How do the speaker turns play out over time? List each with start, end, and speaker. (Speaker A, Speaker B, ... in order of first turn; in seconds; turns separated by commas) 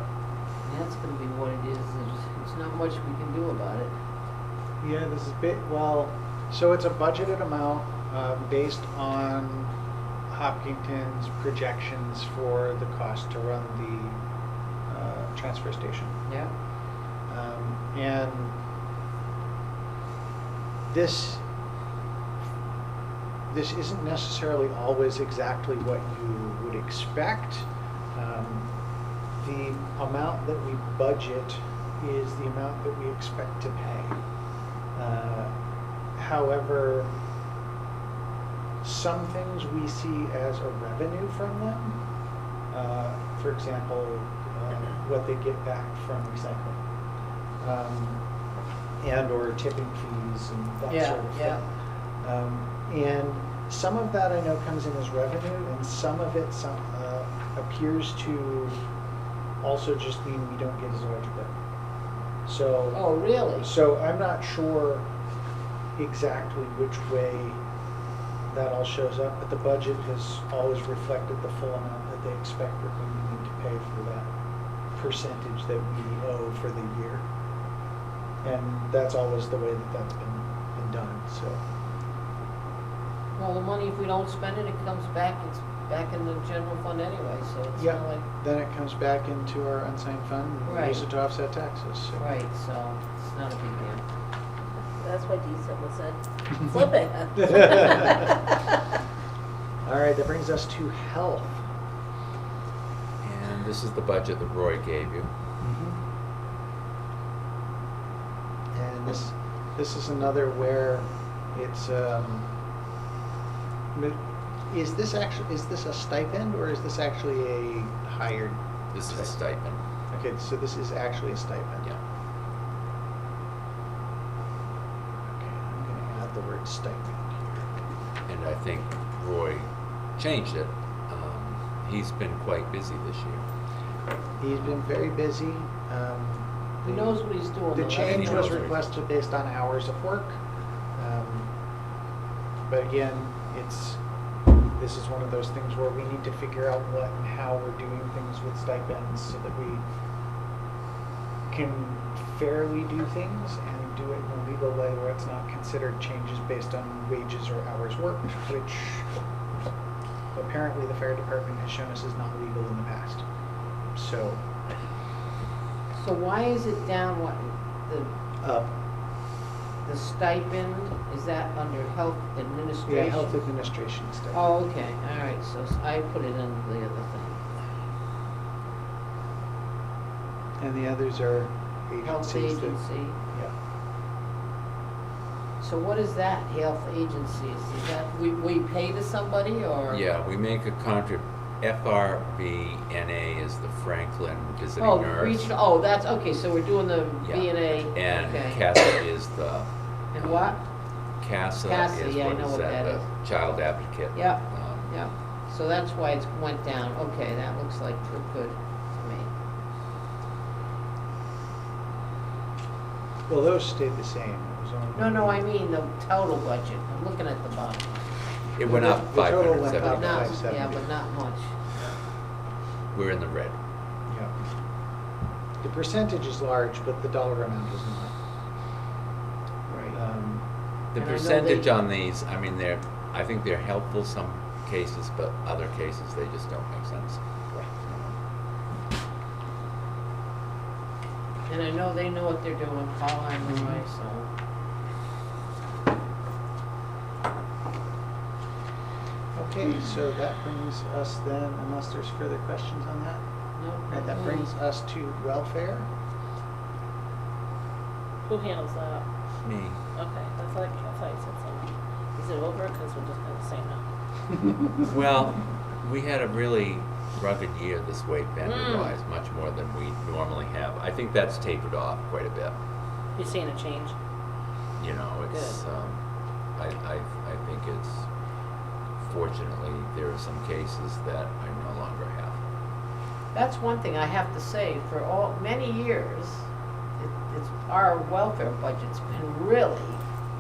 Speaker A: 0.6-3.9, Speaker B: 4.8-9.7, Speaker B: 10.3-14.2, Speaker B: 14.9-16.2, Speaker A: 16.2-16.5, Speaker B: 17.3-18.6, Speaker B: 20.9-21.4, Speaker B: 23.5-28.7, Speaker B: 29.4-34.2, Speaker B: 34.9-35.5, Speaker B: 36.2-37.1, Speaker B: 38.8-42.0, Speaker B: 42.7-46.8, Speaker B: 47.6-48.2, Speaker B: 49.0-51.6, Speaker A: 50.9-51.6, Speaker B: 52.2-58.8, Speaker B: 59.6-61.5, Speaker B: 62.5-63.0, Speaker A: 62.9-63.7, Speaker B: 63.5-65.0, Speaker B: 66.0-67.6, Speaker B: 68.5-74.3, Speaker B: 74.9-77.2, Speaker B: 78.4-81.6, Speaker A: 83.3-88.2, Speaker B: 87.8-92.3, Speaker A: 90.7-91.0, Speaker A: 92.2-94.0, Speaker C: 95.0-98.6, Speaker B: 97.4-98.3, Speaker B: 99.8-101.6, Speaker D: 103.2-105.3, Speaker B: 105.6-106.0, Speaker B: 108.7-112.5, Speaker B: 113.9-119.3, Speaker D: 118.9-119.8, Speaker B: 120.1-121.9, Speaker B: 125.3-127.7, Speaker D: 128.3-133.4, Speaker B: 134.4-140.4, Speaker A: 136.8-138.7, Speaker D: 138.0-138.8, Speaker B: 140.9-141.5, Speaker B: 142.7-144.0, Speaker B: 144.8-149.8, Speaker B: 151.5-159.1, Speaker B: 160.3-163.2, Speaker B: 163.9-164.5, Speaker A: 165.9-168.1, Speaker B: 168.4-168.7, Speaker A: 169.8-173.4, Speaker B: 172.8-174.6, Speaker A: 174.3-177.4, Speaker B: 180.6-183.5, Speaker A: 182.0-183.2, Speaker A: 185.6-190.0, Speaker D: 189.9-195.5, Speaker A: 194.8-198.7, Speaker D: 197.2-200.4, Speaker A: 200.1-200.6, Speaker D: 201.2-204.9, Speaker A: 201.6-203.1, Speaker A: 204.1-209.3, Speaker B: 213.3-215.5, Speaker A: 214.9-218.1, Speaker D: 218.6-220.4, Speaker B: 218.6-220.9, Speaker A: 219.7-221.5, Speaker D: 222.9-223.6, Speaker B: 225.6-228.1, Speaker A: 229.7-230.0, Speaker B: 229.9-230.4, Speaker D: 230.9-238.1, Speaker A: 231.0-231.7, Speaker A: 241.5-244.3, Speaker B: 249.3-253.2, Speaker A: 253.6-254.5, Speaker B: 253.9-255.9, Speaker C: 258.2-259.1, Speaker D: 259.4-259.8, Speaker C: 259.9-263.8, Speaker D: 264.8-272.6, Speaker C: 268.4-268.9, Speaker C: 273.2-273.9, Speaker D: 274.8-276.0, Speaker C: 275.3-275.6, Speaker D: 276.6-278.1, Speaker D: 279.0-282.4, Speaker A: 283.3-286.5, Speaker A: 287.0-290.0